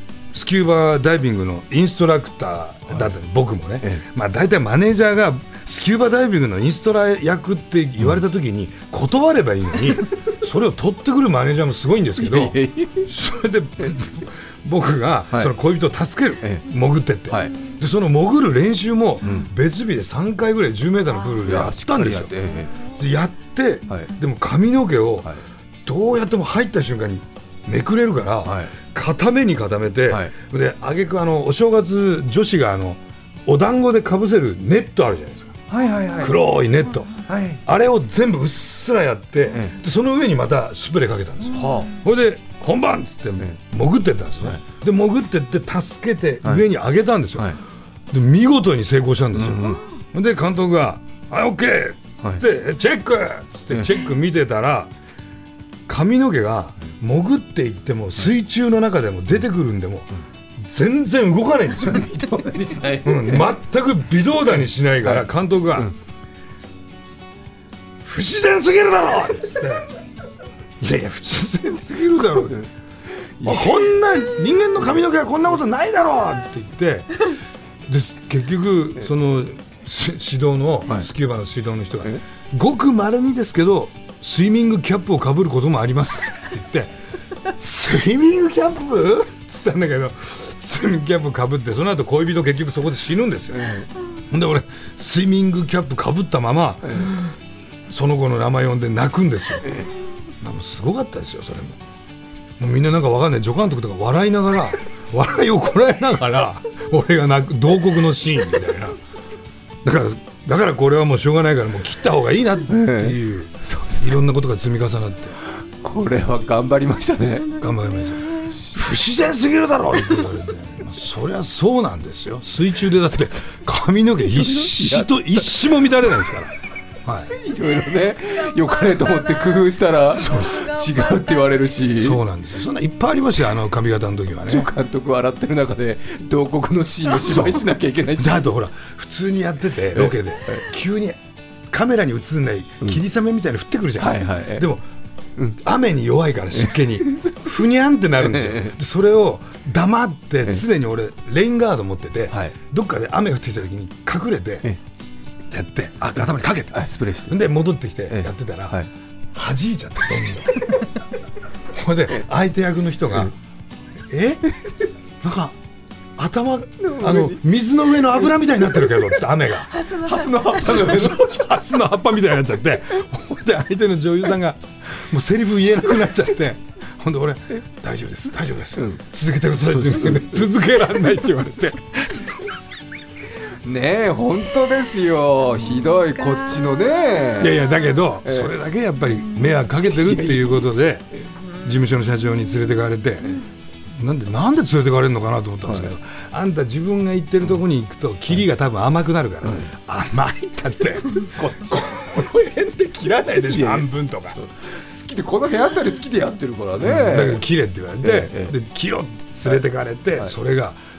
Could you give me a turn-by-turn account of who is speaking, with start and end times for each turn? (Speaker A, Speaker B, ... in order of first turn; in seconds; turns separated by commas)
Speaker A: 0.3-22.3, Speaker B: 12.2-13.1, Speaker B: 17.3-17.6, Speaker B: 19.2-19.5, Speaker B: 21.4-22.7, Speaker A: 22.9-25.3, Speaker A: 25.8-35.6, Speaker B: 28.4-28.7, Speaker B: 35.7-36.4, Speaker C: 35.9-36.3, Speaker A: 36.2-47.6, Speaker B: 37.3-37.6, Speaker B: 41.5-42.0, Speaker A: 48.1-54.9, Speaker B: 49.3-49.8, Speaker A: 55.9-62.1, Speaker B: 61.8-63.5, Speaker A: 63.0-65.9, Speaker B: 65.0-65.9, Speaker A: 68.0-69.9, Speaker A: 70.8-72.6, Speaker B: 72.5-73.9, Speaker A: 73.4-77.3, Speaker A: 77.8-86.9, Speaker A: 87.5-93.7, Speaker B: 93.5-93.9, Speaker A: 94.3-97.3, Speaker A: 97.9-99.7, Speaker B: 99.6-99.9, Speaker A: 100.4-101.8, Speaker A: 102.6-109.0, Speaker A: 109.8-115.4, Speaker B: 112.7-114.2, Speaker B: 115.8-117.6, Speaker A: 117.6-126.5, Speaker C: 117.9-118.4, Speaker B: 123.1-123.4, Speaker B: 124.3-125.5, Speaker A: 127.0-127.3, Speaker B: 127.3-132.2, Speaker C: 128.6-131.7, Speaker A: 130.1-130.7, Speaker A: 131.9-134.7, Speaker B: 134.5-138.5, Speaker A: 137.2-137.6, Speaker A: 138.2-141.2, Speaker B: 139.9-140.7, Speaker A: 141.7-144.8, Speaker B: 144.0-144.7, Speaker A: 145.5-154.7, Speaker B: 146.5-147.4, Speaker B: 148.2-148.7, Speaker A: 155.5-158.8, Speaker B: 156.7-157.4, Speaker B: 158.1-158.9, Speaker A: 159.3-160.7, Speaker A: 161.7-163.3, Speaker A: 164.1-164.4, Speaker A: 165.2-165.6, Speaker A: 166.2-169.7, Speaker B: 166.8-167.4, Speaker B: 168.0-169.1, Speaker C: 169.7-170.9, Speaker B: 170.0-171.4, Speaker A: 170.6-182.4, Speaker B: 175.9-176.3, Speaker B: 179.7-180.5, Speaker B: 183.6-187.6, Speaker C: 185.6-187.8, Speaker A: 187.4-191.1, Speaker B: 188.2-188.5, Speaker C: 189.1-189.7, Speaker B: 189.8-190.7, Speaker A: 191.6-204.4, Speaker B: 195.6-195.9, Speaker B: 199.4-199.7, Speaker B: 201.2-202.2, Speaker B: 203.5-207.4, Speaker A: 206.8-210.8, Speaker B: 208.0-208.5